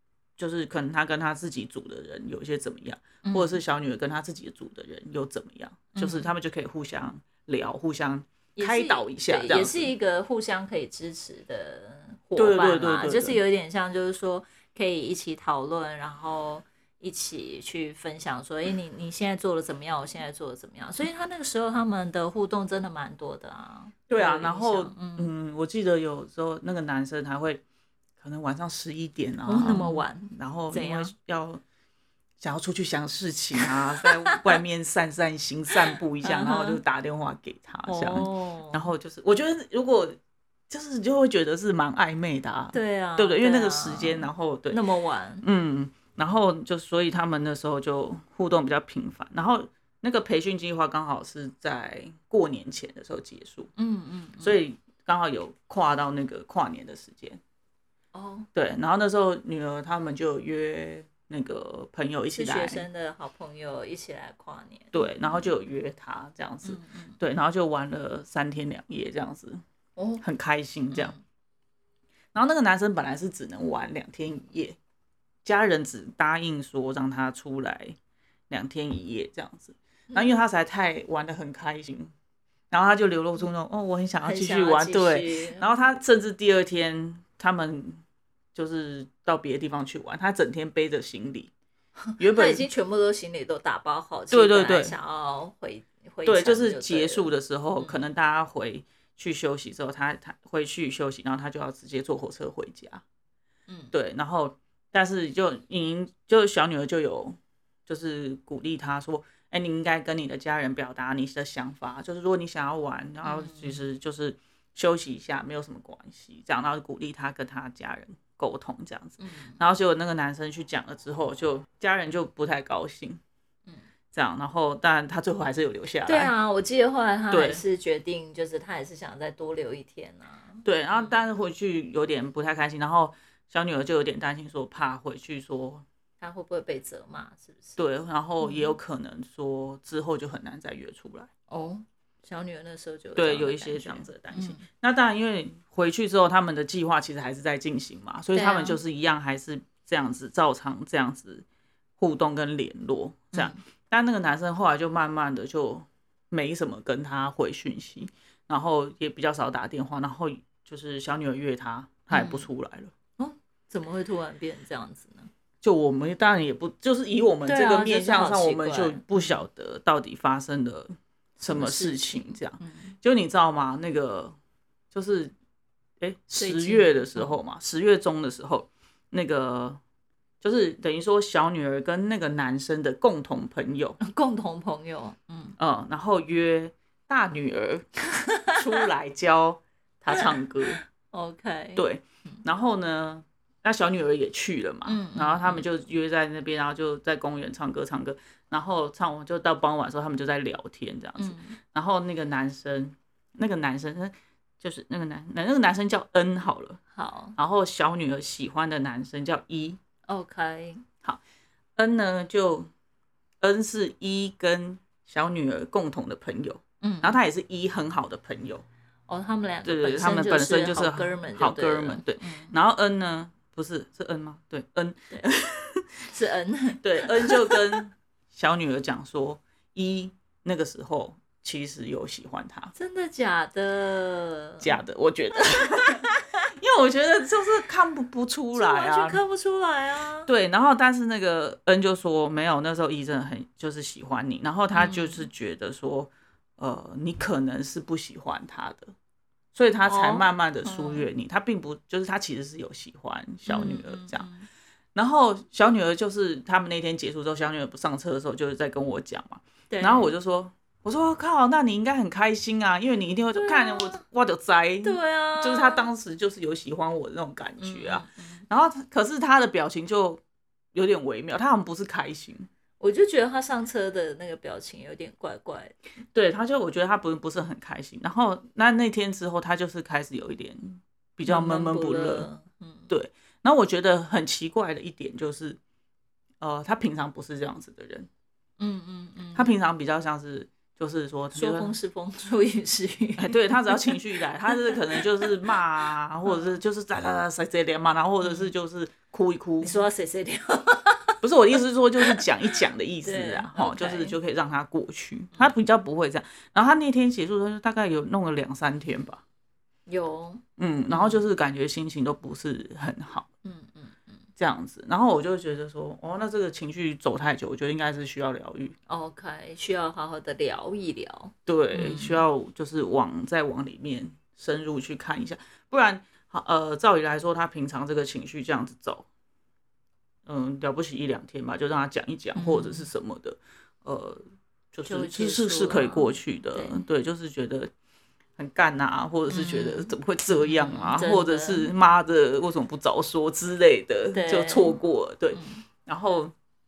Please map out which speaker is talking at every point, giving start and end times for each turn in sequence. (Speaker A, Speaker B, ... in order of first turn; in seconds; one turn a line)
Speaker A: 0.4-9.9
Speaker B: 3.2-3.6
Speaker B: 5.9-6.3
Speaker B: 8.6-25.3
Speaker A: 12.3-13.4
Speaker A: 24.1-27.6
Speaker A: 28.2-31.6
Speaker B: 29.5-31.1
Speaker A: 32.4-40.2
Speaker B: 36.2-36.8
Speaker B: 37.9-38.9
Speaker A: 40.7-44.8
Speaker B: 42.7-45.4
Speaker A: 45.4-53.7
Speaker B: 53.8-54.5
Speaker A: 54.4-57.4
Speaker B: 58.1-58.5
Speaker A: 58.5-62.9
Speaker B: 62.4-65.5
Speaker A: 64.9-69.6
Speaker B: 66.6-67.2
Speaker B: 70.0-70.2
Speaker A: 70.2-71.1
Speaker B: 70.9-71.2
Speaker A: 72.3-74.8
Speaker A: 75.4-78.0
Speaker A: 78.5-82.1
Speaker A: 82.7-88.0
Speaker B: 84.2-85.7
Speaker A: 88.5-91.5
Speaker B: 92.1-98.0
Speaker A: 92.2-92.6
Speaker A: 94.3-94.9
Speaker A: 96.2-103.0
Speaker B: 103.7-103.9
Speaker A: 103.9-123.2
Speaker B: 113.2-113.8
Speaker B: 119.2-119.6
Speaker A: 124.1-126.3
Speaker B: 126.0-131.2
Speaker A: 127.3-127.6
Speaker A: 130.6-135.8
Speaker B: 136.2-137.8
Speaker A: 137.8-141.3
Speaker B: 138.4-138.8
Speaker B: 141.5-144.6
Speaker A: 143.2-151.4
Speaker B: 148.3-148.8
Speaker A: 152.0-162.9
Speaker B: 153.3-153.6
Speaker B: 162.1-162.5
Speaker B: 163.2-165.3
Speaker A: 165.6-174.3
Speaker B: 167.4-169.4
Speaker B: 171.5-172.9
Speaker A: 174.9-175.3
Speaker A: 176.0-179.8
Speaker B: 176.3-177.4
Speaker A: 180.4-184.0
Speaker B: 184.0-185.6
Speaker A: 185.6-187.9
Speaker A: 188.5-190.8
Speaker B: 190.2-192.4
Speaker A: 191.8-206.8
Speaker B: 194.8-195.6
Speaker B: 201.2-201.6
Speaker B: 206.9-207.3
Speaker A: 207.4-209.8
Speaker B: 210.1-210.8
Speaker A: 211.8-212.7
Speaker A: 213.4-218.6
Speaker B: 216.8-217.2
Speaker B: 219.1-222.5
Speaker A: 219.6-225.9
Speaker B: 226.1-227.8
Speaker A: 226.8-232.7
Speaker B: 232.7-234.7
Speaker A: 234.6-239.2
Speaker B: 235.4-236.3
Speaker B: 238.5-240.3
Speaker A: 240.3-248.9
Speaker B: 244.7-245.3
Speaker A: 249.5-254.3
Speaker B: 249.8-251.1
Speaker B: 253.5-254.5
Speaker A: 254.9-270.2
Speaker B: 259.7-260.1
Speaker B: 263.3-264.0
Speaker B: 264.8-265.9
Speaker B: 267.6-268.4
Speaker A: 270.7-272.5
Speaker B: 272.8-275.8
Speaker A: 276.1-282.3
Speaker B: 281.3-282.9
Speaker A: 282.9-285.6
Speaker A: 286.4-288.1
Speaker B: 288.6-289.5
Speaker A: 289.3-291.7
Speaker B: 291.3-295.3
Speaker A: 293.2-299.8
Speaker B: 296.2-296.6
Speaker B: 298.2-298.5
Speaker B: 299.6-302.2
Speaker A: 301.2-309.2
Speaker B: 303.0-304.2
Speaker B: 309.9-311.2
Speaker A: 310.6-313.3
Speaker B: 313.4-314.2
Speaker A: 314.4-318.8
Speaker B: 318.9-322.2
Speaker A: 321.4-329.1
Speaker A: 330.2-337.7
Speaker B: 332.3-332.9
Speaker B: 334.9-336.8
Speaker A: 338.4-346.3
Speaker B: 339.3-341.7
Speaker B: 344.1-344.8
Speaker B: 345.3-345.6